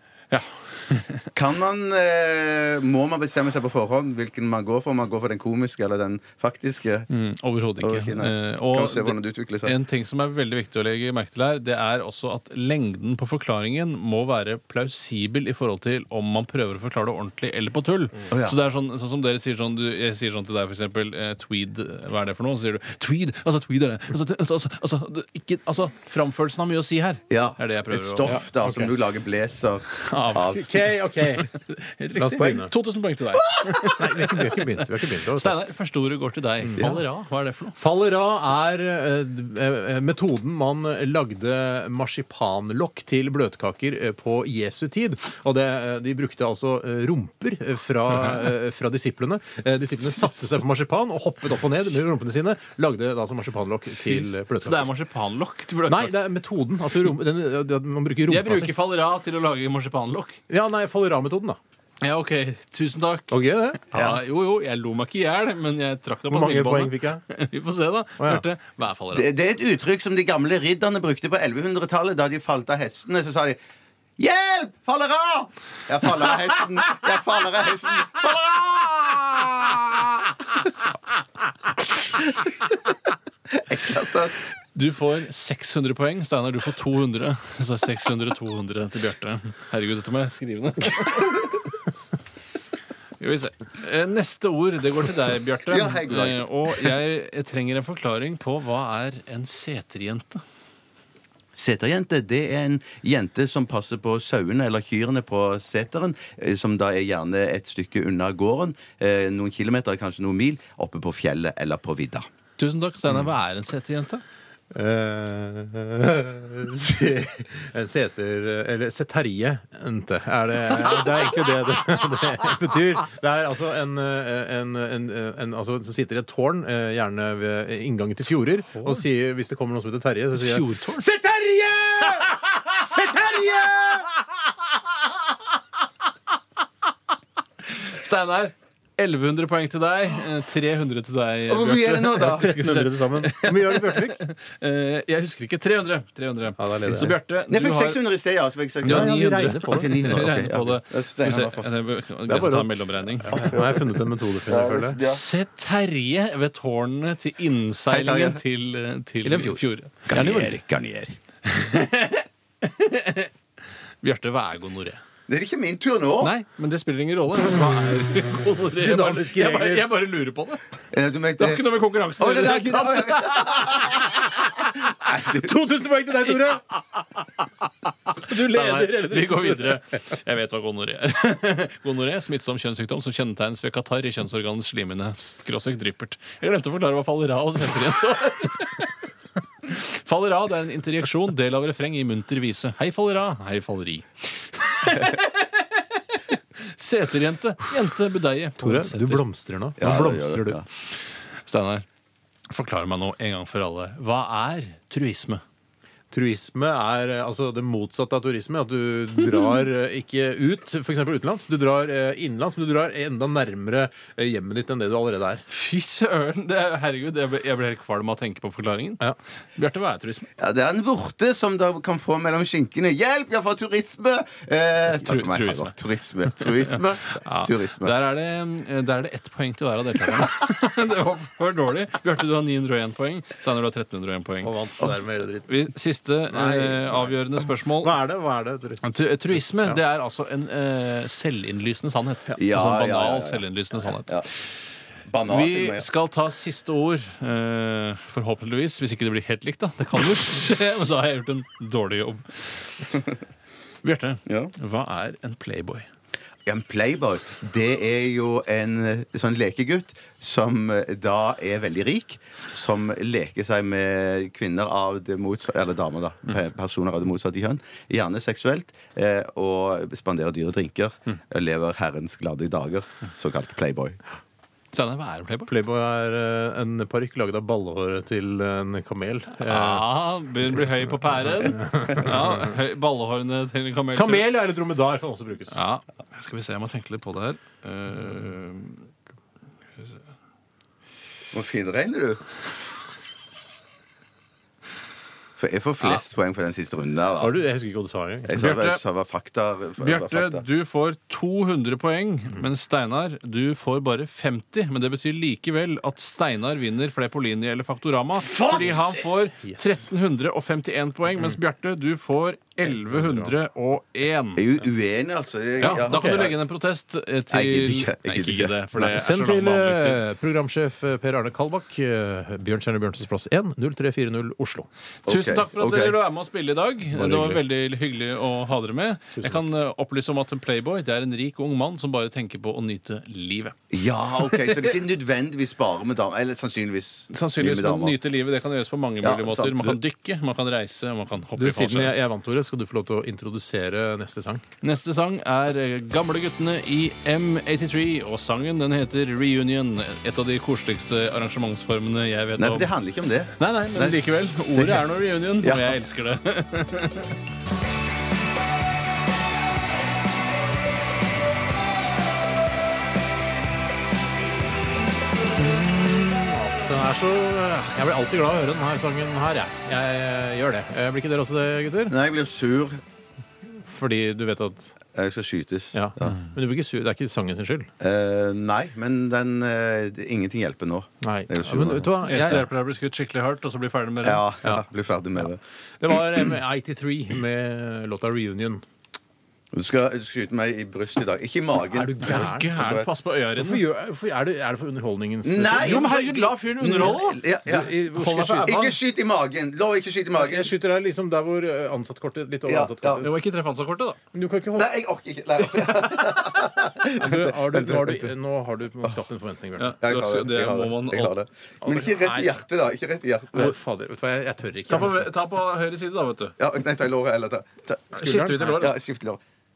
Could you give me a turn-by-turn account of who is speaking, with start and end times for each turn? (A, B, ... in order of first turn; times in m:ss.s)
0:00.3-0:01.2 A
0:01.3-0:07.1 B
0:07.1-0:28.4 A
0:07.8-0:09.8 B
0:18.3-0:18.6 B
0:27.3-0:30.7 B
0:28.2-0:29.0 C
0:30.0-0:30.5 A
0:30.5-0:31.5 C
0:31.4-0:34.7 A
0:32.1-0:32.7 C
0:33.8-0:35.7 C
0:35.2-0:37.8 A
0:36.6-0:37.0 C
0:37.7-0:54.9 C
0:54.0-0:56.1 A
0:55.8-0:58.7 C
0:58.3-1:00.4 A
1:00.5-1:01.6 C
1:02.0-1:03.4 A
1:03.3-1:04.1 C
1:03.9-1:09.3 A
1:06.3-1:07.2 C
1:08.2-1:08.4 C
1:09.1-1:13.6 B
1:14.2-1:19.8 B
1:23.5-1:24.4 B
1:24.7-1:31.6 A
1:33.2-1:40.4 A
1:35.7-1:36.8 B
1:41.6-1:52.2 B
1:52.6-1:54.2 A
1:54.7-2:14.1 C
2:08.7-2:09.0 A
2:10.3-2:11.1 A
2:17.8-2:28.0 A
2:21.5-2:22.6 B
2:22.2-2:24.2 C
2:26.6-2:27.2 C
2:26.9-2:31.7 B
2:28.8-2:33.5 A
2:28.8-2:30.3 C
2:32.2-2:35.0 C
2:33.3-2:33.8 B
2:34.4-2:35.2 B
2:34.9-2:40.6 A
2:37.9-2:38.4 B
2:39.2-2:39.6 C
2:40.1-2:41.2 B
2:41.4-2:43.3 A
2:44.0-2:45.0 A
2:45.3-2:46.3 B
2:46.2-2:50.6 A
2:48.8-2:49.9 C
2:50.9-2:51.7 B
2:51.4-2:54.0 A
2:52.2-2:54.0 B
2:54.9-2:56.7 C
2:58.2-2:59.8 C
2:58.3-3:08.9 A
3:09.6-3:19.2 A
3:18.6-3:20.6 C
3:19.8-3:20.6 B
3:21.5-3:21.8 A
3:22.5-3:25.4 A
3:26.1-3:35.4 C
3:35.5-3:40.2 A
3:40.4-3:48.0 B
3:45.0-3:45.8 A
3:46.4-3:54.5 A
3:54.4-3:55.6 C
3:55.5-3:58.0 A
3:56.3-3:58.9 C
3:58.8-4:04.2 A
3:59.4-3:59.8 C
4:02.4-4:03.4 B
4:05.1-4:05.9 B
4:05.3-4:12.9 A
4:13.8-4:15.8 A
4:14.3-4:14.5 B
4:16.4-4:34.0 B
4:34.7-4:35.5 A
4:35.5-4:39.9 C
4:39.4-4:44.4 A
4:43.9-4:45.6 C
4:45.5-4:48.8 A
4:51.3-4:52.2 B
4:55.4-4:57.4 B
4:57.2-4:58.3 C
4:58.2-5:00.4 B
4:58.3-4:58.8 A
4:59.8-5:14.4 A
5:08.2-5:08.9 B
5:09.4-5:09.9 C
5:12.7-5:13.3 C
5:14.4-5:16.4 B
5:15.6-5:20.0 A
5:15.6-5:16.4 C
5:17.3-5:18.6 B
5:18.7-5:24.7 C
5:25.0-5:33.5 A
5:25.0-5:26.0 B
5:26.9-5:27.4 C
5:29.2-5:29.4 C
5:33.7-5:38.0 B
5:34.1-5:34.7 A
5:37.1-5:41.9 A
5:39.0-5:39.8 B
5:41.4-5:44.4 C
5:44.6-5:52.7 A
5:52.4-5:54.9 B
5:53.4-5:57.1 A
5:55.4-5:55.8 B
6:05.4-6:11.9 C
6:11.9-6:12.8 B
6:13.6-6:14.7 C
6:14.9-6:16.2 B
6:15.7-6:17.7 C
6:17.8-6:22.4 B
6:21.0-6:22.5 C
6:22.0-6:24.2 A
6:24.0-6:25.4 B
6:25.8-6:28.6 C
6:29.5-6:32.9 B
6:31.7-6:32.5 C
6:32.0-6:33.6 A
6:33.4-6:36.0 C
6:35.2-6:37.8 B
6:35.6-6:37.2 A
6:37.4-6:38.8 C
6:37.9-6:38.6 A
6:38.4-6:40.5 B
6:40.1-6:43.2 C
6:42.4-6:43.0 B
6:43.0-6:44.0 A
6:44.1-6:44.7 C
6:44.5-6:48.1 B
6:46.9-6:49.8 C
6:49.6-6:51.2 A
6:49.8-6:53.6 B
6:51.6-6:52.4 C
6:53.3-6:55.1 C
6:54.7-6:56.3 A
6:56.4-6:59.2 B
6:57.9-6:58.6 C
6:57.9-6:58.8 A